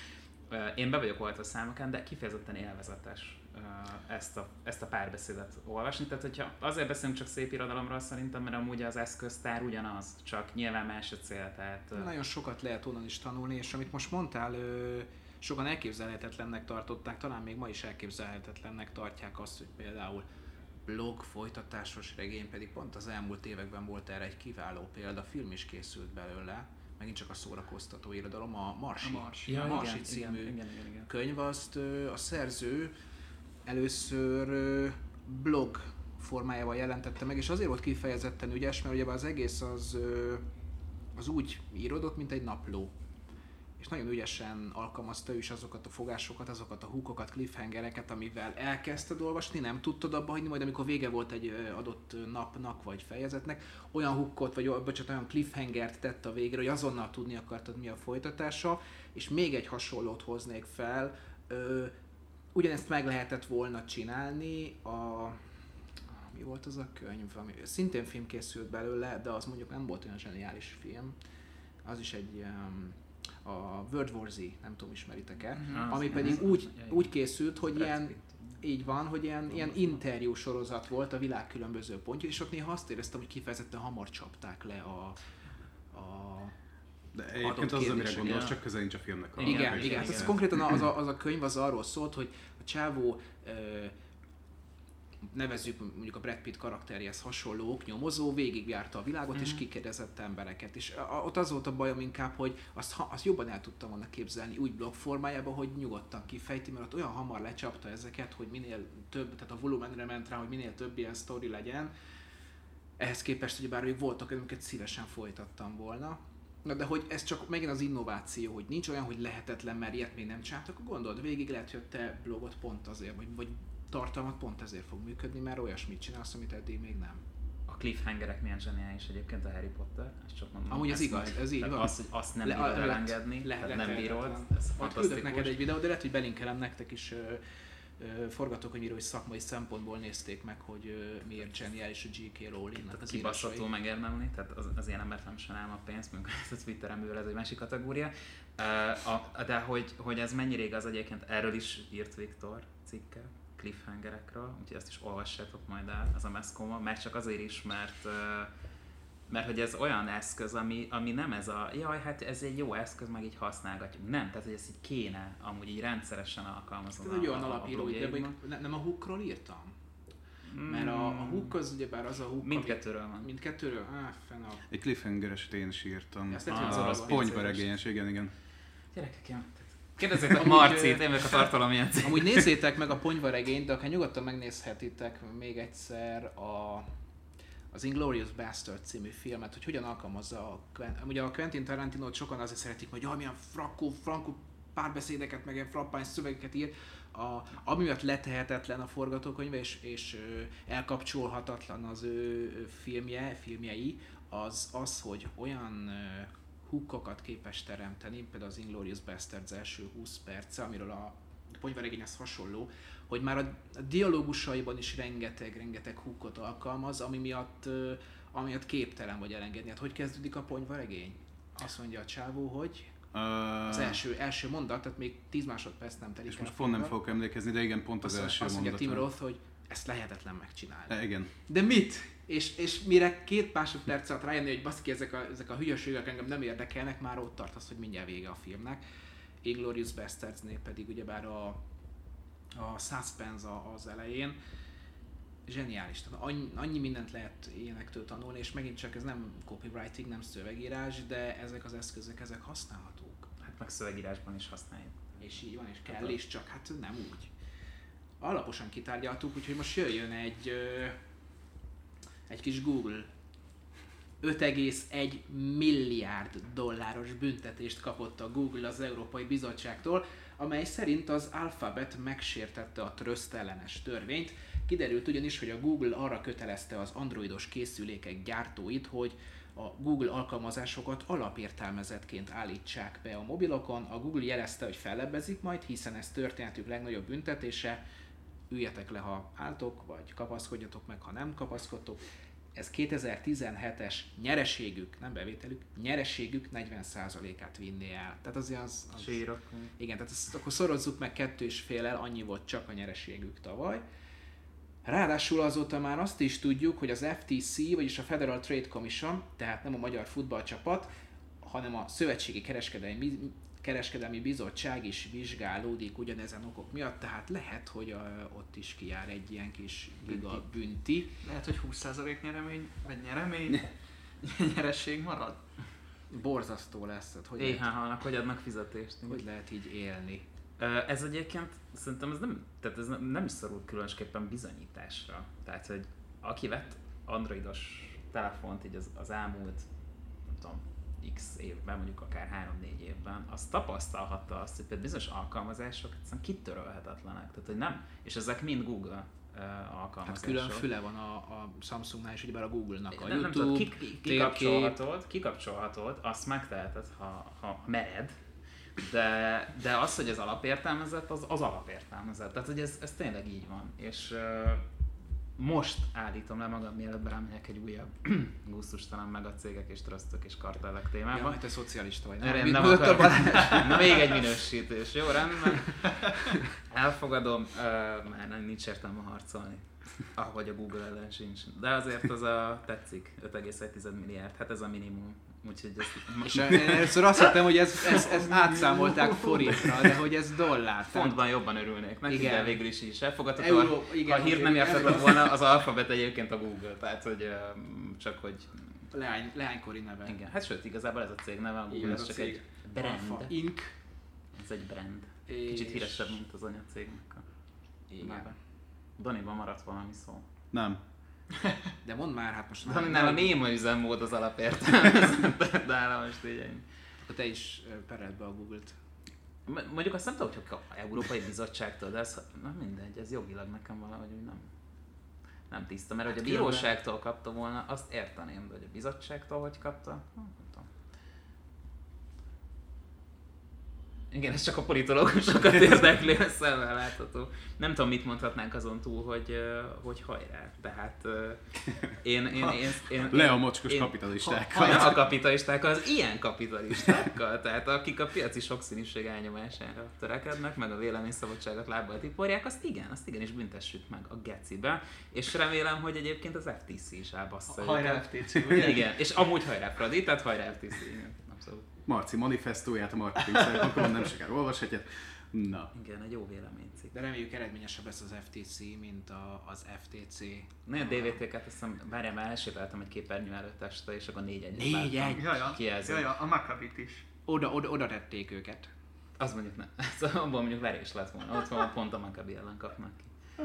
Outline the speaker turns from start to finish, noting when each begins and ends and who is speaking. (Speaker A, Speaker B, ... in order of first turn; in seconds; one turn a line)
Speaker A: 0.5-12.1
Speaker B: 11.9-20.2
Speaker B: 20.9-32.9
Speaker C: 29.0-29.8
Speaker A: 29.4-31.1
Speaker B: 33.6-40.5
Speaker B: 41.1-42.9
Speaker B: 43.8-61.9
Speaker B: 62.5-65.4
Speaker B: 66.2-71.2
Speaker B: 71.8-85.2
Speaker C: 75.6-75.9
Speaker A: 75.7-78.6
Speaker A: 79.5-79.8
Speaker B: 85.9-86.5
Speaker D: 87.1-90.4
Speaker A: 87.4-88.6
Speaker B: 87.6-88.4
Speaker A: 89.4-90.4
Speaker B: 89.4-93.9
Speaker B: 95.2-111.9
Speaker B: 113.0-127.2
Speaker A: 127.7-135.6
Speaker B: 130.7-137.4
Speaker B: 138.0-143.7
Speaker A: 142.8-158.5
Speaker A: 159.3-168.3
Speaker B: 167.0-169.8
Speaker A: 170.5-171.5
Speaker B: 170.6-174.6
Speaker A: 172.4-173.3
Speaker D: 174.7-178.3
Speaker B: 176.3-177.3
Speaker A: 176.4-177.7
Speaker A: 178.9-182.4
Speaker B: 180.2-181.5
Speaker B: 182.0-186.9
Speaker B: 187.7-222.9
Speaker D: 223.1-224.0
Speaker B: 223.7-227.0
Speaker D: 226.3-229.1
Speaker B: 228.0-238.8
Speaker D: 230.9-231.3
Speaker B: 239.4-241.6
Speaker B: 242.5-244.4
Speaker B: 245.5-253.3
Speaker A: 253.4-255.2
Speaker B: 255.2-257.3
Speaker A: 255.9-256.2
Speaker B: 258.2-261.0
Speaker B: 262.3-263.1
Speaker B: 264.2-287.8
Speaker B: 288.5-292.0
Speaker B: 292.5-299.2
Speaker A: 298.9-299.7
Speaker B: 299.8-303.8
Speaker B: 304.8-321.1
Speaker A: 320.1-320.4
Speaker C: 321.2-323.7
Speaker C: 324.2-325.4
Speaker B: 326.1-327.7
Speaker A: 327.4-329.2
Speaker B: 329.1-330.3
Speaker A: 330.6-339.7
Speaker A: 340.2-350.6
Speaker B: 350.0-354.8
Speaker A: 352.9-358.2
Speaker A: 358.8-364.6
Speaker A: 365.4-371.4
Speaker B: 371.1-374.2
Speaker A: 372.2-375.8
Speaker A: 376.6-387.1
Speaker B: 386.2-391.2
Speaker A: 390.9-398.8
Speaker B: 392.1-392.6
Speaker B: 393.4-395.3
Speaker B: 398.9-400.1
Speaker A: 400.0-403.3
Speaker B: 401.7-403.7
Speaker A: 404.3-407.2
Speaker B: 405.3-406.2
Speaker B: 407.9-408.3
Speaker A: 408.0-408.3
Speaker A: 409.0-410.2
Speaker D: 410.5-410.8
Speaker B: 411.8-413.4
Speaker A: 412.6-416.6
Speaker B: 417.0-418.8
Speaker A: 419.5-424.5
Speaker A: 425.5-430.7
Speaker B: 426.1-426.7
Speaker A: 434.1-461.7
Speaker D: 442.3-445.0
Speaker C: 444.2-444.9
Speaker C: 457.5-458.9
Speaker D: 461.9-465.7
Speaker A: 465.7-466.9
Speaker B: 466.9-471.2
Speaker A: 470.6-476.1
Speaker B: 474.5-475.3
Speaker C: 475.2-477.1
Speaker B: 477.3-478.7
Speaker A: 479.2-483.1